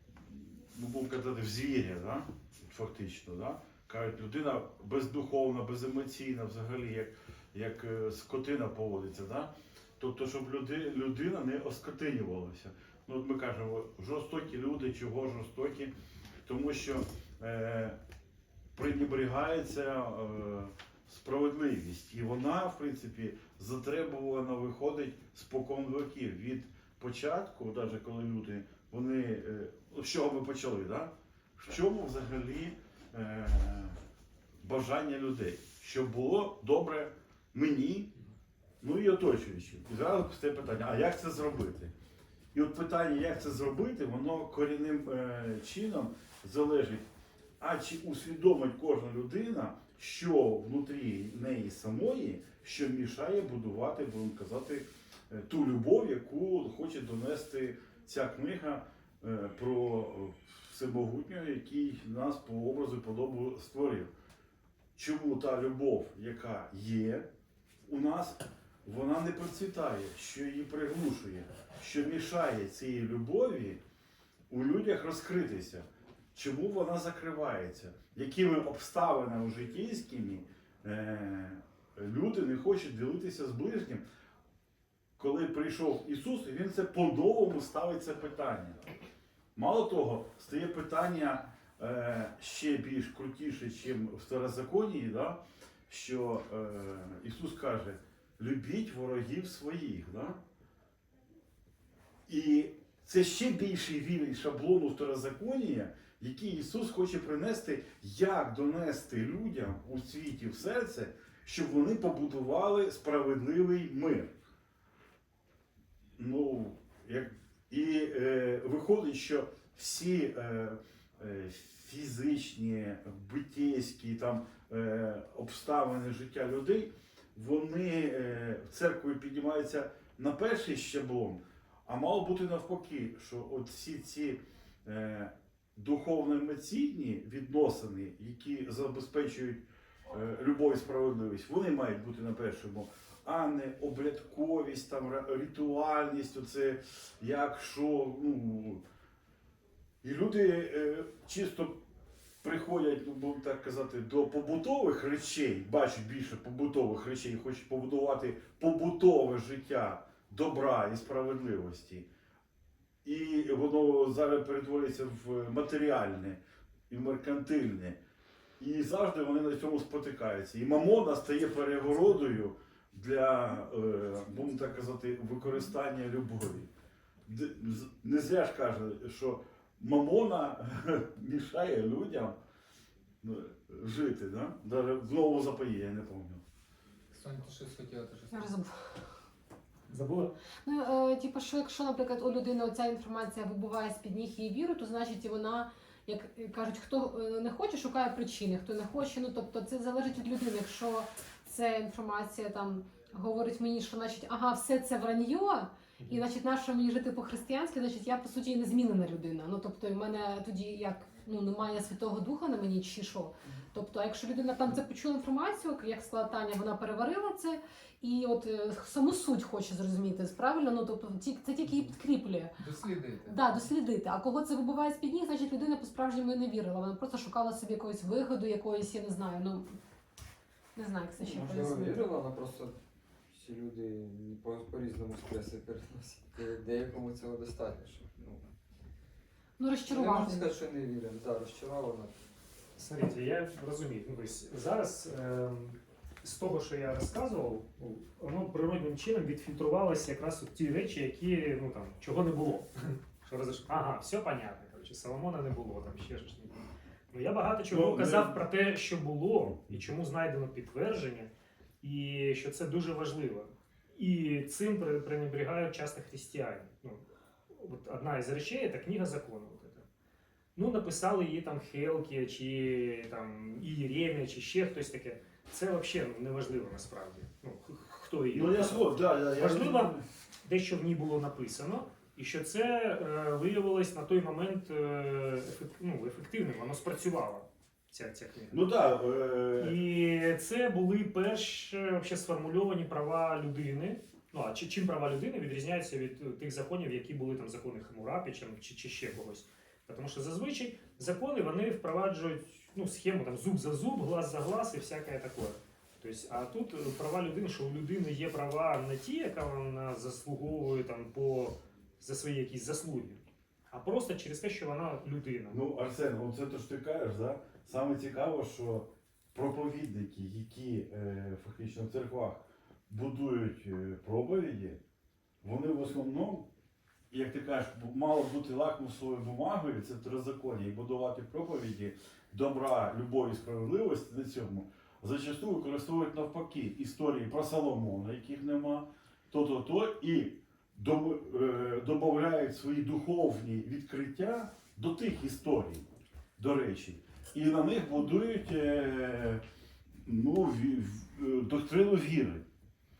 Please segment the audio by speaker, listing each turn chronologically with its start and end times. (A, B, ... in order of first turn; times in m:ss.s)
0:00.2-0:15.9 A
0:16.4-0:18.0 A
0:18.8-0:34.0 A
0:34.6-0:38.1 A
0:38.8-0:41.9 A
0:42.5-0:47.0 A
0:47.6-1:04.1 A
1:05.0-1:07.2 A
1:07.9-1:13.8 A
1:14.5-1:24.0 A
1:25.2-1:28.8 A
1:29.6-1:40.4 A
1:42.3-1:54.3 A
1:56.2-2:28.8 A
2:30.0-2:31.8 A
2:32.4-2:42.1 A
2:43.0-2:48.0 A
2:48.6-2:56.7 A
2:57.2-3:02.4 A
3:03.2-3:06.4 A
3:07.1-3:08.5 B
3:08.3-3:08.7 C
3:09.9-3:10.3 D
3:10.6-3:42.6 C
3:42.6-3:43.5 B
3:43.2-3:49.7 C
3:50.8-3:52.0 C
3:51.2-3:52.7 E
3:53.3-3:58.4 E
3:59.6-4:00.5 C
3:59.8-4:02.1 E
4:02.8-4:21.3 D
4:17.7-4:18.4 A
4:21.8-4:29.8 D
4:30.6-4:48.6 D
4:38.3-4:40.0 A
4:48.5-4:49.8 A
4:49.6-5:15.6 D
5:15.5-5:24.8 A
5:25.4-5:26.5 A
5:27.1-5:45.8 A
5:46.4-5:49.4 A
5:50.0-5:52.4 A